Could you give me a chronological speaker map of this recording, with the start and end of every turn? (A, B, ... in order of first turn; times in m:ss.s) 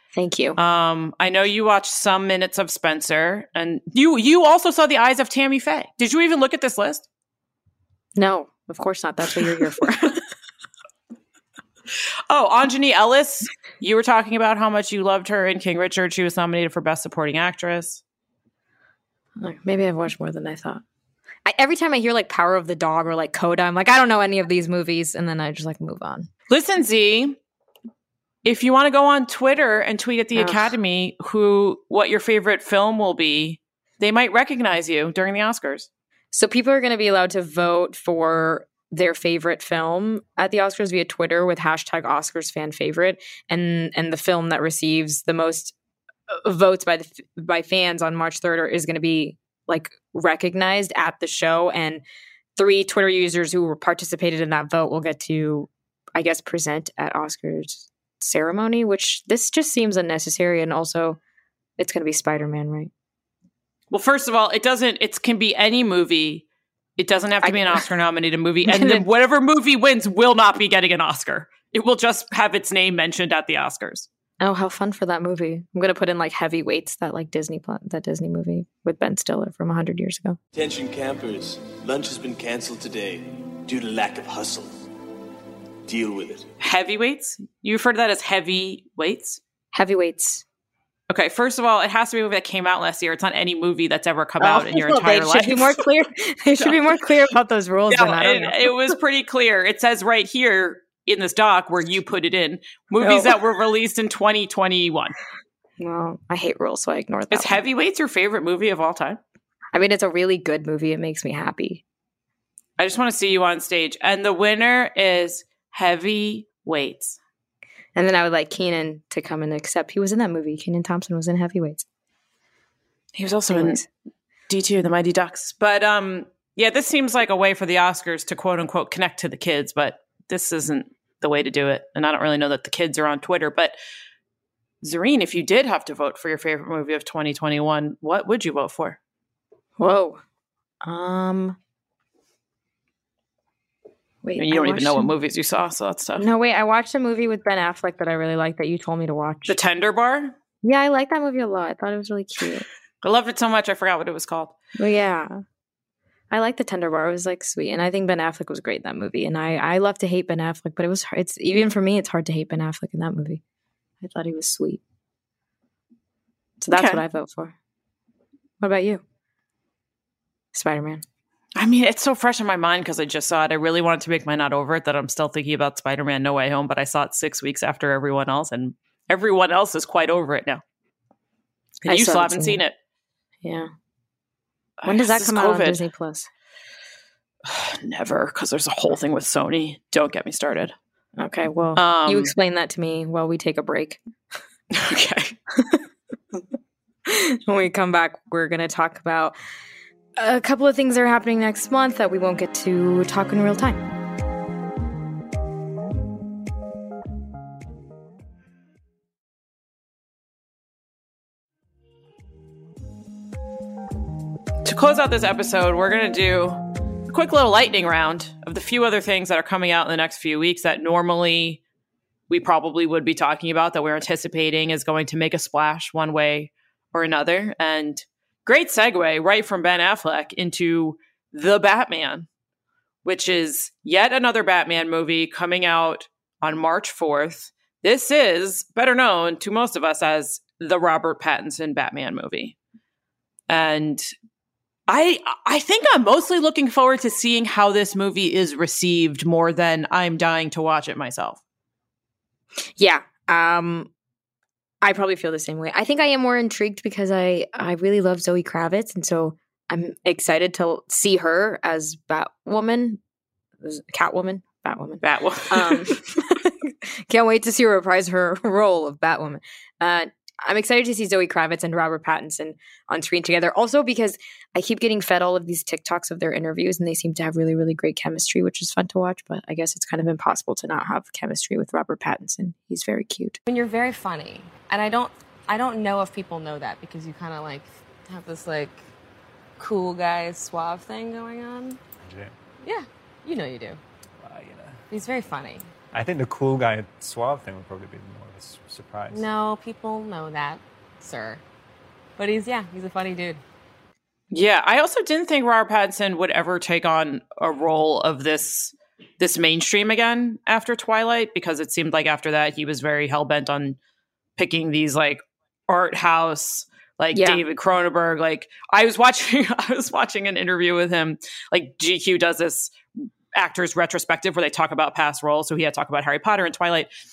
0:00.1-0:00.6 A
0:00.6-0:07.0 B
0:08.1-0:10.2 A
0:12.3-0:18.0 B
0:19.4-0:20.8 A
0:21.4-0:26.3 A
0:26.5-0:27.4 B
0:28.4-0:35.9 B
0:30.3-0:30.7 A
0:36.3-0:45.7 A
0:46.3-0:52.0 A
0:52.6-1:01.2 A
1:01.8-1:02.9 A
1:03.9-1:06.4 B
1:07.0-1:14.1 B
1:07.4-1:07.8 A
1:08.6-1:09.0 A
1:14.4-1:20.4 A
1:20.5-1:24.7 C
1:25.8-1:26.5 C
1:26.6-1:29.4 B
1:29.7-1:30.4 A
1:31.1-1:35.8 B
1:34.4-1:38.7 A
1:37.9-1:45.2 B
1:43.0-1:43.4 A
1:45.8-1:47.6 A
1:47.3-1:49.2 B
1:49.7-1:51.8 A
1:52.8-1:57.2 B
1:57.9-2:01.8 A
2:03.2-2:03.8 B
2:03.5-2:03.9 A
2:04.5-2:13.8 B
2:14.8-2:19.0 B
2:19.8-2:20.2 A
2:20.8-2:21.6 A
2:24.2-2:25.1 A
2:24.4-2:26.2 B
2:26.2-2:29.6 A
2:29.5-2:30.3 B
2:30.6-2:32.6 A
2:33.0-2:34.5 B
2:34.8-2:35.4 A
2:36.3-2:43.4 A
2:44.0-2:44.8 A
2:46.6-2:47.5 A
2:46.7-2:47.0 B
2:48.6-2:49.0 A
2:50.5-2:51.0 A
2:51.6-3:00.6 B
3:01.8-3:02.6 A
3:01.8-3:02.7 B
3:03.4-3:03.7 A
3:04.8-3:05.8 B
3:04.8-3:06.3 A
3:07.4-3:10.7 B
3:11.2-3:14.0 A
3:11.8-3:12.3 B
3:14.7-3:15.3 B
3:15.5-3:15.8 A
3:17.0-3:19.4 A
3:20.2-3:23.8 A
3:34.6-3:41.6 B
3:42.3-3:52.3 B
3:53.0-4:02.6 B
4:03.5-4:04.1 B
4:04.9-4:11.4 B
4:12.8-4:13.9 A
4:14.8-4:23.0 A
4:23.6-4:43.4 A
4:25.0-4:25.9 B
4:43.5-4:48.8 D
4:49.6-4:51.8 D
4:52.0-4:52.3 E
4:52.6-4:53.8 D
4:54.2-4:54.8 E
4:54.9-4:55.7 D
4:55.9-4:59.2 E
4:59.1-5:01.4 D
5:02.2-5:03.4 D
5:04.3-5:13.8 B
5:14.4-5:22.7 B
5:17.1-5:17.4 A
5:23.3-5:26.9 B